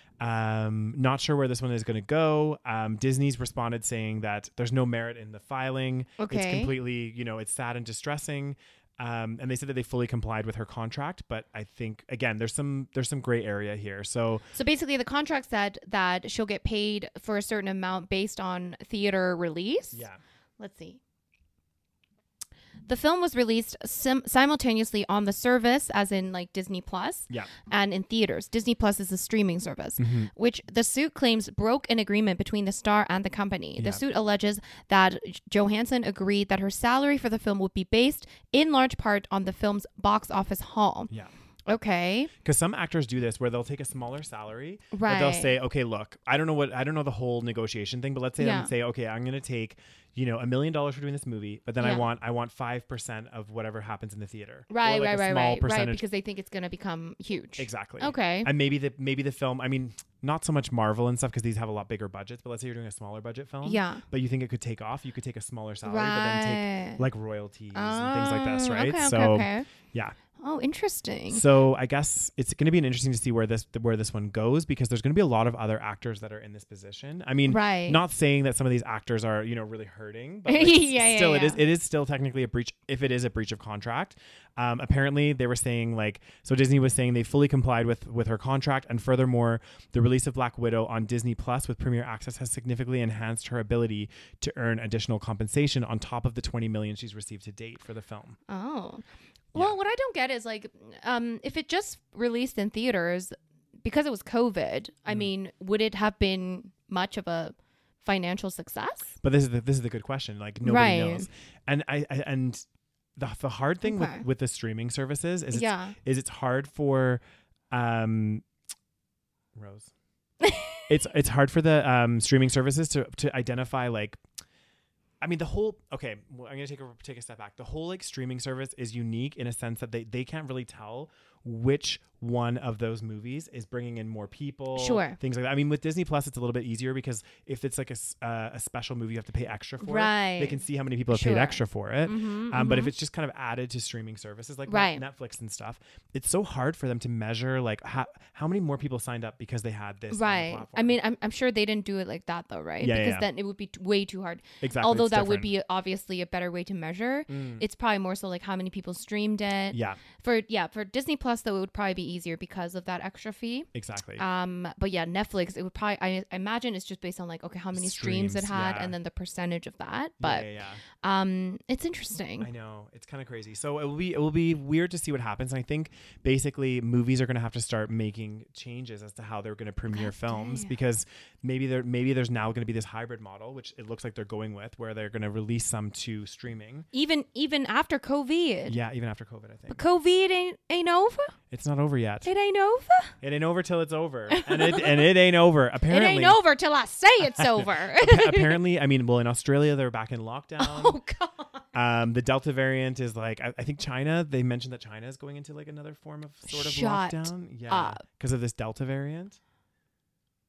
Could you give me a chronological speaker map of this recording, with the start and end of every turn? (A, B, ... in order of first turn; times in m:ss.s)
0:00.2-0:14.5 A
0:06.2-0:06.7 B
0:14.5-0:20.1 B
0:19.9-0:20.2 A
0:20.6-0:21.0 B
0:22.9-0:41.1 B
0:30.0-0:30.3 A
0:33.8-0:34.0 A
0:41.7-0:42.3 B
0:42.4-0:56.0 A
0:44.9-0:45.6 B
0:48.4-0:48.7 B
0:51.8-0:52.1 B
0:54.7-0:58.5 B
0:57.6-1:10.2 A
1:03.6-1:04.0 B
1:05.8-1:07.0 B
1:07.7-1:09.7 B
1:10.4-1:11.4 B
1:11.3-1:38.4 A
1:17.5-1:18.0 B
1:20.5-1:21.6 B
1:38.5-1:49.2 B
1:49.2-1:52.6 A
1:50.6-1:51.3 B
1:53.2-1:57.2 A
1:53.8-1:54.2 B
1:55.5-1:56.0 B
1:57.7-1:58.4 A
1:59.6-1:59.9 A
2:00.4-2:00.9 B
2:00.9-2:04.2 A
2:05.2-2:31.0 A
2:14.8-2:15.2 B
2:19.8-2:22.9 B
2:24.7-2:25.0 B
2:30.1-2:50.5 B
2:32.8-2:33.3 A
2:34.6-2:35.5 A
2:37.3-2:37.6 A
2:39.7-2:40.0 A
2:43.7-2:44.2 A
2:47.7-2:49.0 A
2:50.2-2:50.8 A
2:51.0-2:52.5 B
2:52.4-3:06.9 A
2:59.9-3:00.7 B
3:06.9-3:08.8 B
3:08.7-3:09.8 A
3:09.7-3:11.4 B
3:11.5-3:12.3 A
3:12.2-3:13.1 B
3:13.2-3:16.4 A
3:14.3-3:15.1 B
3:15.9-3:18.6 B
3:17.4-3:21.0 A
3:20.6-3:21.6 B
3:21.7-3:29.4 A
3:26.5-3:28.0 B